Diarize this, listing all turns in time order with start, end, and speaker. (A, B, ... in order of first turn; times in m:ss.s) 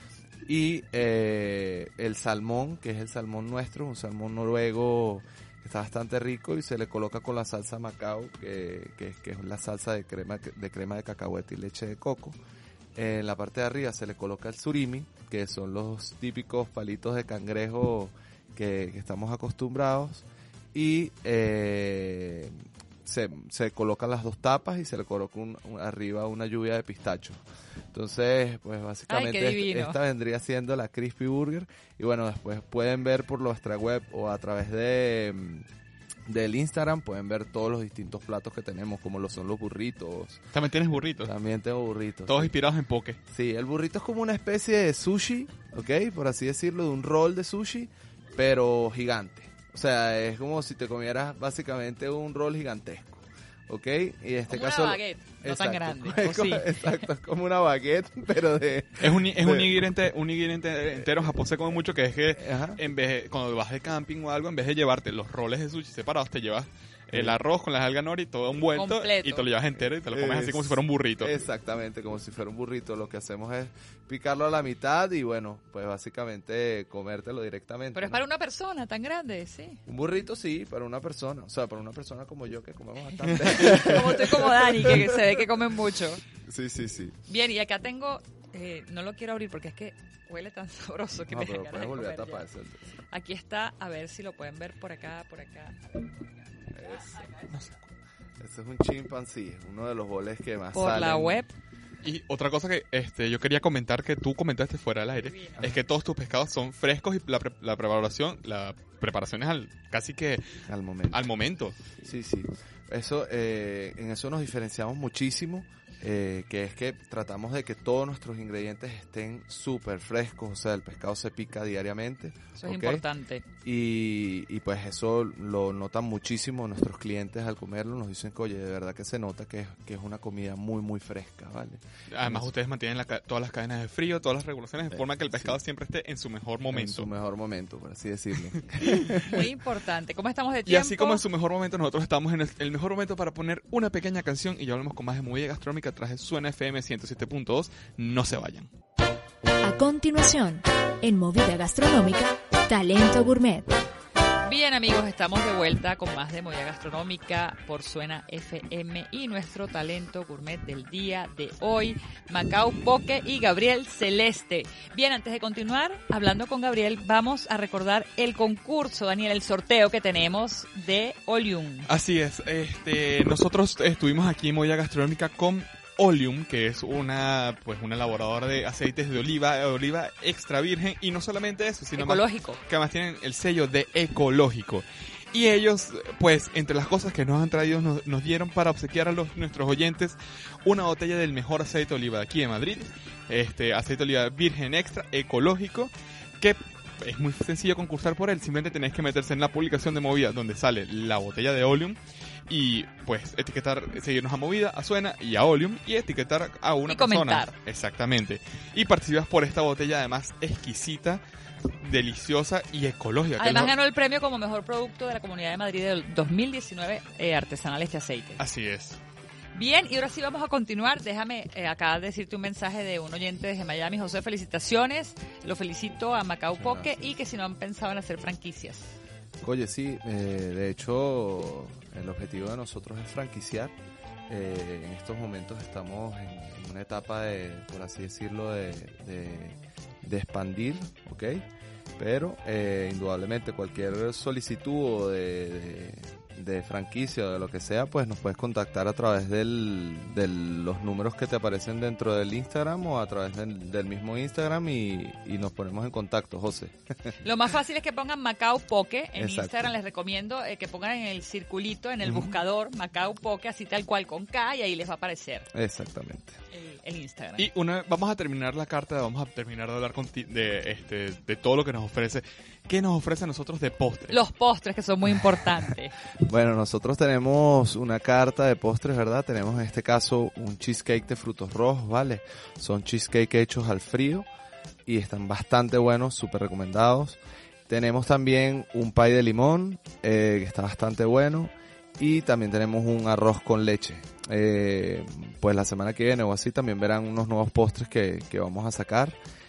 0:00.5-0:12.4 A
0:13.0-0:27.4 A
0:27.9-0:35.7 A
0:29.1-0:30.0 B
0:36.3-0:40.4 A
0:40.5-0:41.3 C
0:41.2-0:42.5 A
0:42.3-0:43.2 C
0:43.3-0:59.8 A
0:54.5-0:56.8 B
0:59.0-1:11.3 C
1:02.4-1:02.8 A
1:07.1-1:07.4 A
1:08.8-1:09.5 B
1:10.1-1:18.2 A
1:17.9-1:19.8 B
1:19.9-1:25.4 A
1:23.3-1:26.2 B
1:26.4-1:27.2 A
1:27.3-1:32.5 B
1:31.3-1:32.9 A
1:33.1-1:37.0 B
1:36.7-1:37.4 A
1:37.5-1:37.8 C
1:38.4-1:41.4 A
1:40.7-1:41.5 B
1:42.0-1:50.6 C
1:45.3-1:45.6 B
1:50.7-1:51.2 A
1:51.1-1:51.8 C
1:52.0-2:03.0 A
2:02.6-2:03.4 B
2:03.6-2:12.5 A
2:12.1-2:17.1 C
2:15.0-2:15.5 A
2:16.7-2:19.5 A
2:18.8-2:19.2 C
2:19.2-2:21.2 B
2:20.7-2:28.7 C
2:29.6-2:33.7 D
2:34.4-2:51.9 B
2:51.9-3:31.2 C
3:02.0-3:02.6 B
3:26.9-3:27.5 B
3:31.8-3:33.8 C
3:33.4-3:38.4 B
3:38.4-3:39.0 C
3:39.6-3:49.0 B
3:46.6-3:47.1 A
3:49.4-3:53.8 A
3:54.3-4:17.2 A
4:17.2-4:25.5 B
4:19.2-4:19.7 A
4:22.0-4:22.4 A
4:25.5-4:26.4 A
4:26.5-4:27.5 B
4:27.4-4:34.2 C
4:34.1-4:36.0 B
4:36.2-4:44.3 A
4:44.9-4:59.2 A